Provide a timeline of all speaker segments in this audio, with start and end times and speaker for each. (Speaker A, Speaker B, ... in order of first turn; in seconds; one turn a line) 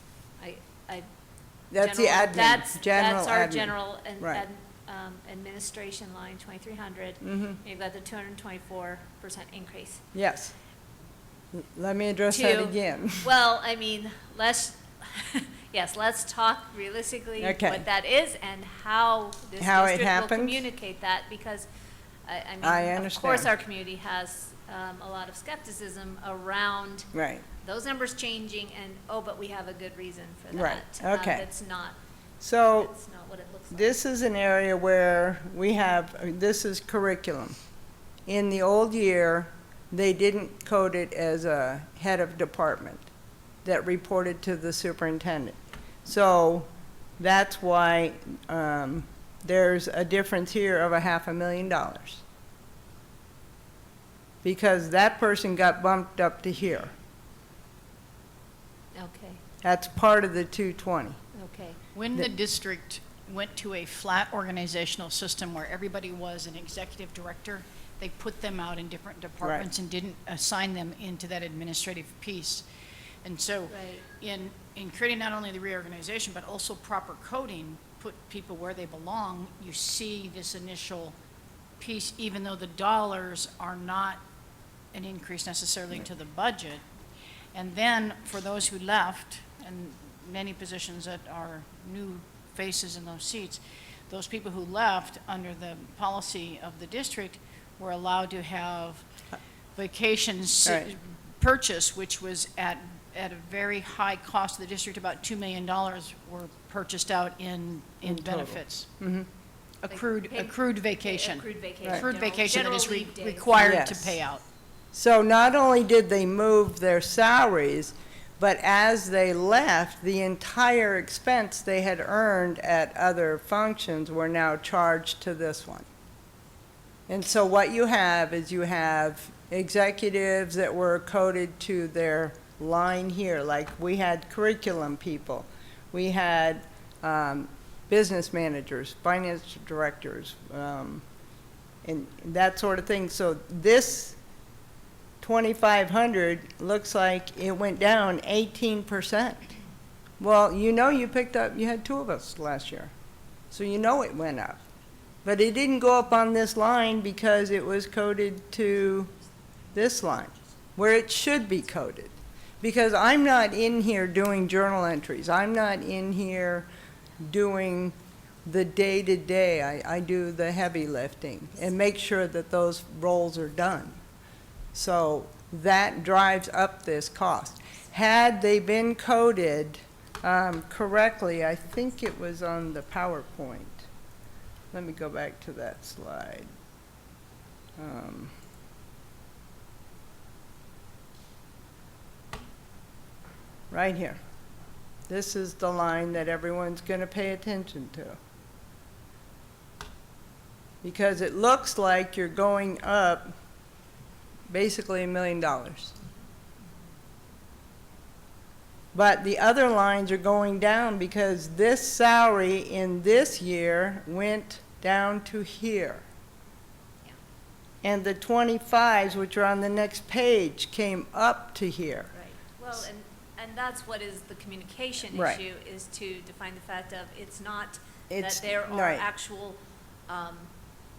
Speaker A: 0.4-1.1
Speaker B: 1.7-4.4
Speaker A: 1.8-10.0
Speaker B: 7.2-7.6
Speaker B: 10.1-10.5
Speaker B: 11.5-13.3
Speaker A: 12.3-21.7
Speaker B: 17.4-17.9
Speaker B: 19.6-20.6
Speaker A: 22.3-32.0
Speaker B: 22.6-23.5
Speaker B: 27.1-27.4
Speaker B: 30.5-31.4
Speaker B: 32.4-32.9
Speaker A: 32.8-33.9
Speaker B: 33.7-37.5
Speaker B: 38.3-43.1
Speaker B: 43.6-52.2
Speaker B: 54.4-56.9
Speaker A: 58.9-59.4
Speaker B: 59.6-61.2
Speaker A: 61.3-61.8
Speaker C: 61.9-72.7
Speaker B: 69.4-69.7
Speaker C: 73.2-81.2
Speaker A: 73.7-74.0
Speaker C: 81.8-84.2
Speaker C: 84.9-86.8
Speaker C: 87.5-99.0
Speaker C: 99.8-108.9
Speaker B: 100.7-100.9
Speaker B: 108.0-109.3
Speaker C: 109.8-114.4
Speaker A: 109.9-113.6
Speaker B: 113.6-114.2
Speaker B: 114.9-125.9
Speaker B: 127.1-141.0
Speaker B: 141.8-144.2
Speaker B: 145.2-149.6
Speaker B: 150.2-152.9
Speaker B: 153.5-154.6
Speaker B: 155.2-159.1
Speaker B: 159.7-166.7
Speaker B: 167.2-167.9
Speaker B: 168.5-174.0
Speaker B: 174.7-183.9
Speaker B: 184.7-186.5
Speaker B: 187.8-188.3
Speaker B: 193.7-194.2
Speaker B: 195.1-198.2
Speaker B: 200.8-203.3
Speaker B: 204.5-205.9
Speaker B: 208.9-216.0
Speaker B: 217.8-222.1
Speaker A: 222.1-230.5
Speaker B: 225.1-225.4
Speaker B: 228.1-229.1